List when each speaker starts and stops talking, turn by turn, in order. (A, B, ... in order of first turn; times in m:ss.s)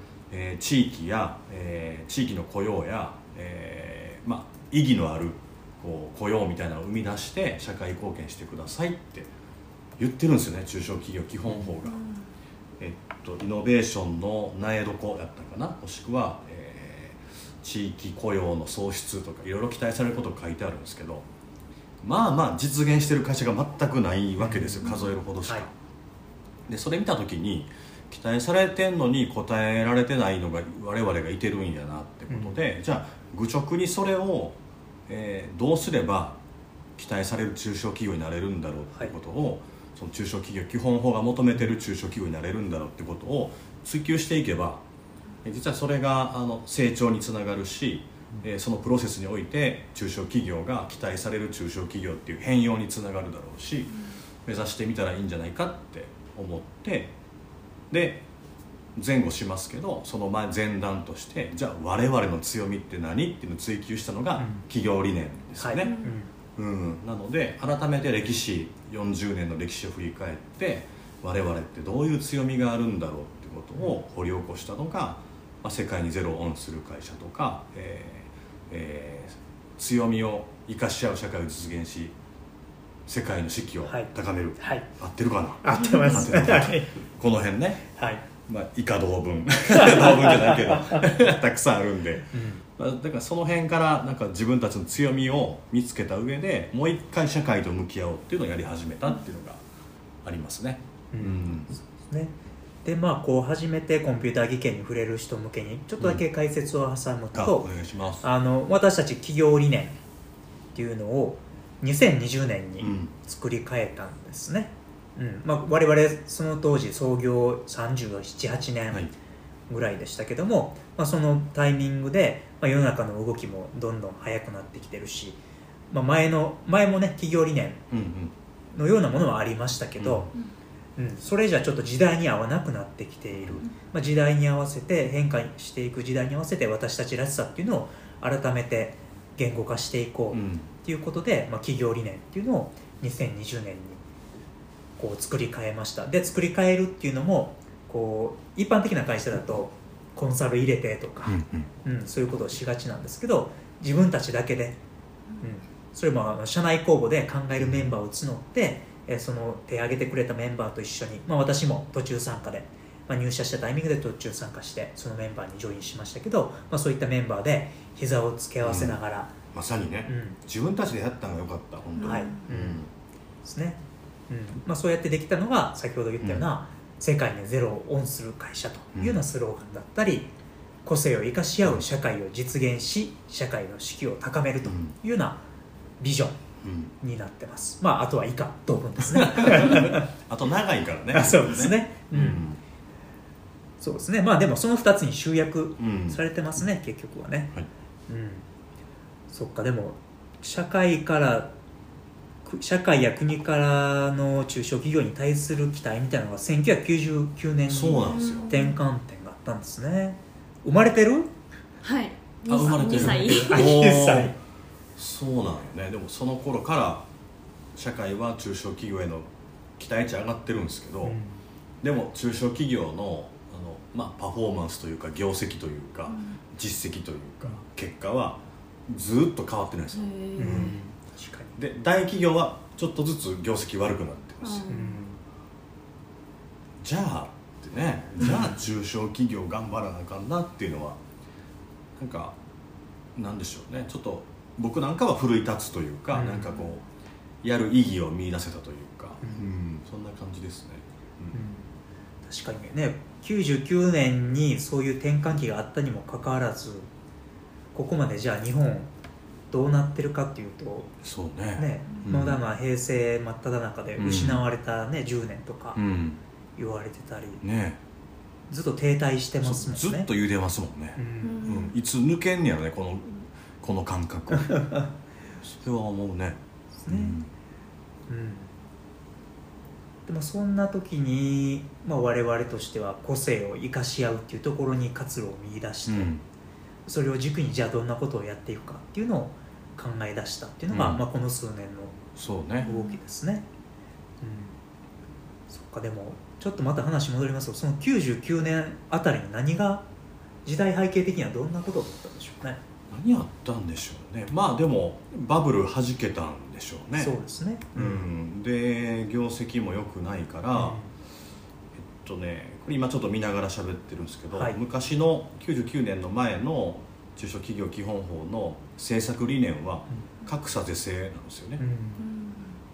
0:00.3-0:09.3 A
0:10.0-0:12.0 A
0:12.8-0:21.3 A
0:22.0-0:25.7 A
0:24.4-0:25.7 B
0:26.7-0:34.6 A
0:32.3-0:32.6 B
0:35.1-0:36.4 A
0:37.0-0:44.8 A
0:45.4-0:57.1 A
0:57.9-0:58.2 A
0:59.0-1:05.9 A
1:04.4-1:04.7 B
1:05.6-1:06.3 B
1:05.9-1:06.1 C
1:06.6-1:22.2 A
1:23.1-1:27.9 A
1:23.8-1:24.9 B
1:25.6-1:26.9 B
1:28.0-1:28.2 B
1:28.4-1:39.6 A
1:29.8-1:31.0 B
1:32.3-1:32.6 B
1:40.2-1:41.7 A
1:41.1-1:47.7 B
1:47.3-1:48.3 A
1:48.2-1:50.0 B
1:50.7-1:59.1 B
1:52.8-1:53.1 A
1:59.7-2:07.8 B
2:07.9-2:08.3 A
2:08.7-2:10.3 B
2:10.0-2:10.3 A
2:11.0-2:24.0 B
2:13.3-2:13.6 A
2:20.3-2:20.7 A
2:25.0-2:34.8 B
2:31.3-2:31.7 A
2:35.4-2:49.3 B
2:37.6-2:37.9 A
2:48.6-2:49.0 A
2:49.5-2:52.9 A
2:50.1-2:50.4 B
2:52.0-2:52.4 C
2:52.0-2:52.8 B
2:53.4-3:00.3 B
2:56.2-2:56.5 A
2:58.9-2:59.2 A
3:00.8-3:05.4 B
3:04.6-3:05.0 A
3:06.0-3:06.4 B
3:06.6-3:06.9 A
3:07.0-3:10.1 B
3:09.2-3:12.6 A
3:11.1-3:12.5 B
3:13.8-3:17.5 B
3:15.8-3:16.2 A
3:18.1-3:18.5 B
3:19.3-3:21.5 B
3:22.4-3:31.3 B
3:27.7-3:28.5 A
3:28.1-3:28.8 C
3:31.8-3:33.7 C
3:32.5-3:34.4 A
3:32.9-3:34.4 B
3:35.0-3:37.1 A
3:37.8-3:41.2 A
3:41.0-3:41.4 B
3:41.8-3:50.8 A
3:46.1-3:46.4 C
3:49.9-3:50.8 C
3:50.4-3:51.6 B
3:51.6-3:54.8 A
3:54.4-3:55.0 C
3:54.7-3:55.2 B
3:56.8-4:01.0 A
4:02.0-4:02.4 A
4:03.2-4:06.8 A
4:06.1-4:06.5 B
4:07.4-4:11.4 A
4:11.3-4:11.7 B
4:12.3-4:16.9 B
4:17.7-4:18.9 B
4:19.5-4:20.9 B
4:21.0-4:22.4 A
4:21.6-4:25.8 B
4:24.0-4:24.5 A
4:25.8-4:26.2 A
4:26.6-4:27.4 B
4:27.4-4:27.8 A
4:28.5-4:30.1 B
4:29.4-4:34.6 A
4:31.0-4:31.5 B
4:31.2-4:31.8 C
4:35.4-4:37.3 A
4:36.8-4:37.2 B
4:38.1-4:38.5 B
4:40.1-4:46.1 B
4:45.9-4:46.2 A
4:46.9-4:52.0 B
4:50.7-4:51.0 A
4:52.2-4:52.7 A
4:52.6-4:53.5 B
4:52.6-4:53.0 C
4:54.2-4:54.6 B
4:55.5-4:59.9 B
5:00.4-5:02.6 B
5:02.9-5:07.1 A
5:07.0-5:08.1 B
5:07.8-5:10.8 A
5:10.5-5:10.9 B
5:11.9-5:21.6 A
5:14.3-5:14.6 B
5:21.6-5:22.0 B
5:22.0-5:22.6 C